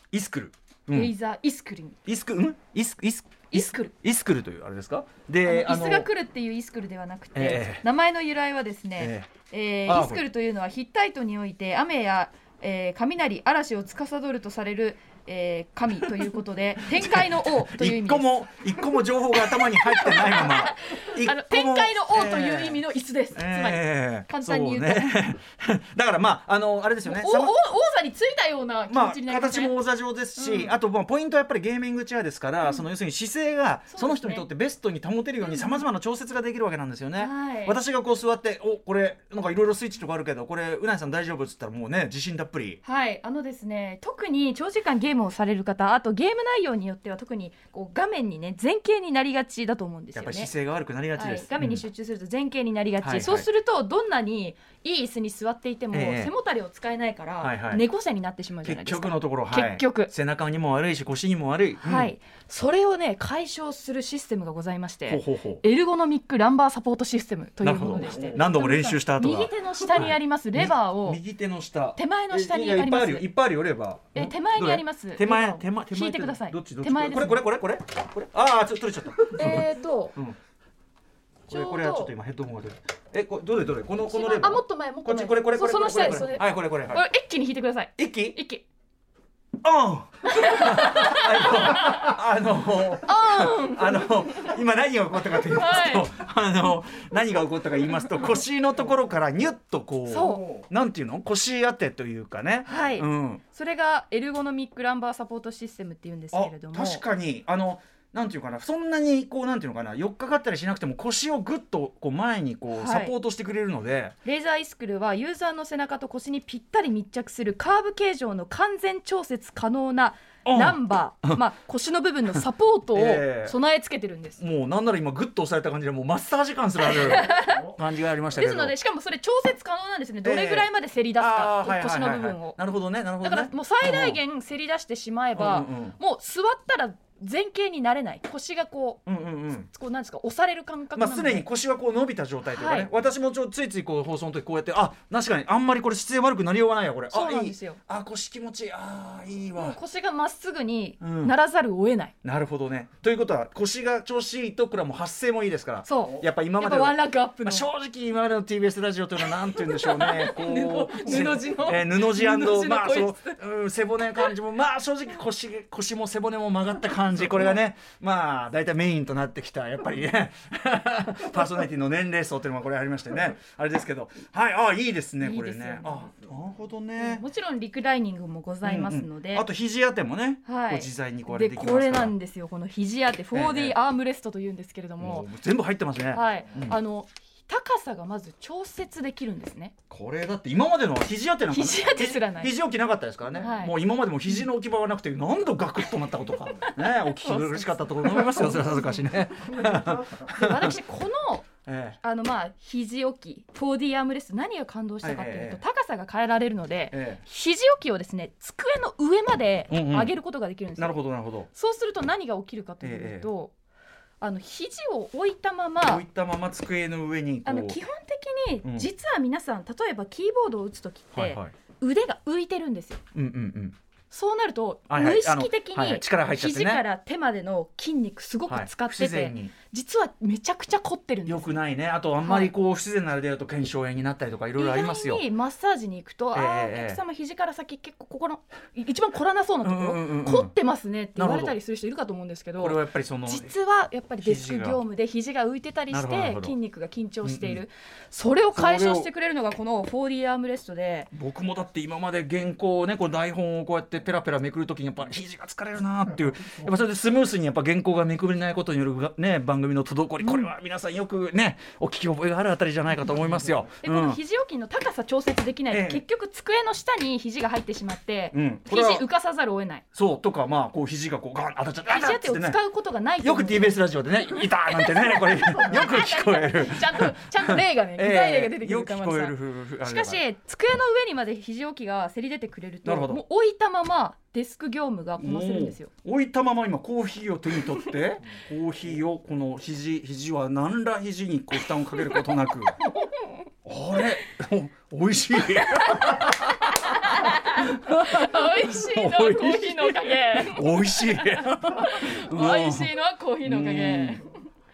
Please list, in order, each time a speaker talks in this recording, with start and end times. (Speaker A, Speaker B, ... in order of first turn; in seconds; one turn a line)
Speaker A: 0.1-1.1
Speaker B: 0.9-2.0
Speaker A: 2.1-6.1
Speaker B: 3.5-3.9
Speaker B: 5.4-18.3
Speaker A: 7.3-7.8
Speaker A: 9.0-9.3
Speaker A: 9.9-10.3
Speaker A: 17.0-22.8
Speaker B: 19.4-25.2
Speaker A: 23.4-27.6
Speaker B: 27.1-29.8
Speaker A: 28.9-42.8
Speaker B: 30.4-30.8
Speaker B: 33.9-34.5
Speaker B: 35.4-35.9
Speaker B: 37.2-37.8
Speaker B: 42.8-50.5
Speaker A: 50.2-51.8
Speaker B: 51.1-60.1
Speaker A: 53.0-53.5
Speaker A: 55.9-56.3
Speaker A: 57.4-57.9
Speaker A: 58.6-62.1
Speaker B: 61.8-71.2
Speaker A: 65.1-65.6
Speaker A: 67.6-80.4
Speaker B: 72.0-73.3
Speaker B: 74.2-77.4
Speaker B: 79.4-80.2
Speaker A: 81.5-87.0
Speaker B: 81.5-82.1
Speaker B: 84.0-88.6
Speaker A: 88.0-88.4
Speaker A: 89.6-103.4
Speaker B: 90.3-92.1
Speaker B: 93.0-94.6
Speaker B: 95.3-96.1
Speaker B: 100.1-100.5
Speaker B: 102.7-107.0
Speaker A: 106.3-114.2
Speaker B: 112.7-113.1
Speaker B: 114.2-124.4
Speaker A: 120.5-121.5
Speaker A: 122.3-123.6
Speaker A: 124.4-128.8
Speaker B: 126.8-127.8
Speaker B: 128.3-132.6
Speaker A: 130.2-134.2
Speaker B: 133.2-139.0
Speaker A: 135.3-136.0
Speaker A: 139.1-139.7
Speaker B: 139.7-141.5
Speaker A: 141.0-149.8
Speaker B: 142.5-142.9
Speaker B: 147.1-147.8
Speaker B: 149.6-152.1
Speaker A: 151.0-151.3
Speaker A: 152.2-177.3
Speaker B: 155.8-157.7
Speaker B: 159.2-163.4
Speaker B: 175.2-176.1
Speaker B: 177.0-179.5
Speaker A: 178.6-182.2
Speaker B: 180.4-185.3
Speaker A: 183.3-183.8
Speaker A: 185.0-186.8
Speaker B: 186.1-189.8
Speaker A: 189.9-200.8
Speaker B: 191.5-192.5
Speaker B: 193.4-193.8
Speaker B: 196.5-199.0
Speaker B: 200.3-201.5
Speaker A: 201.7-202.0
Speaker B: 202.0-211.0
Speaker A: 205.0-205.6
Speaker A: 206.9-207.2
Speaker A: 209.7-210.1
Speaker A: 210.8-211.5
Speaker B: 211.5-213.5
Speaker A: 212.8-213.3
Speaker B: 214.2-216.0
Speaker A: 215.8-217.8
Speaker B: 217.4-223.0
Speaker A: 218.6-218.9
Speaker A: 221.2-221.5
Speaker A: 223.1-223.8
Speaker B: 224.1-231.6
Speaker A: 224.9-226.8
Speaker A: 228.5-229.5
Speaker A: 231.3-235.3
Speaker B: 232.2-232.5
Speaker B: 234.6-251.1
Speaker A: 236.3-237.0
Speaker A: 239.6-240.5
Speaker A: 241.2-241.6
Speaker A: 242.6-243.5
Speaker A: 244.2-244.8
Speaker A: 245.9-246.6
Speaker A: 247.2-247.6
Speaker A: 248.6-249.1
Speaker A: 251.1-264.2
Speaker B: 260.2-260.5
Speaker B: 263.8-269.9
Speaker A: 265.7-266.0
Speaker A: 268.3-269.1
Speaker A: 269.9-272.6
Speaker B: 271.9-285.9
Speaker A: 273.2-280.2
Speaker A: 282.9-283.2
Speaker A: 285.2-292.8
Speaker A: 293.6-304.2
Speaker B: 296.9-304.4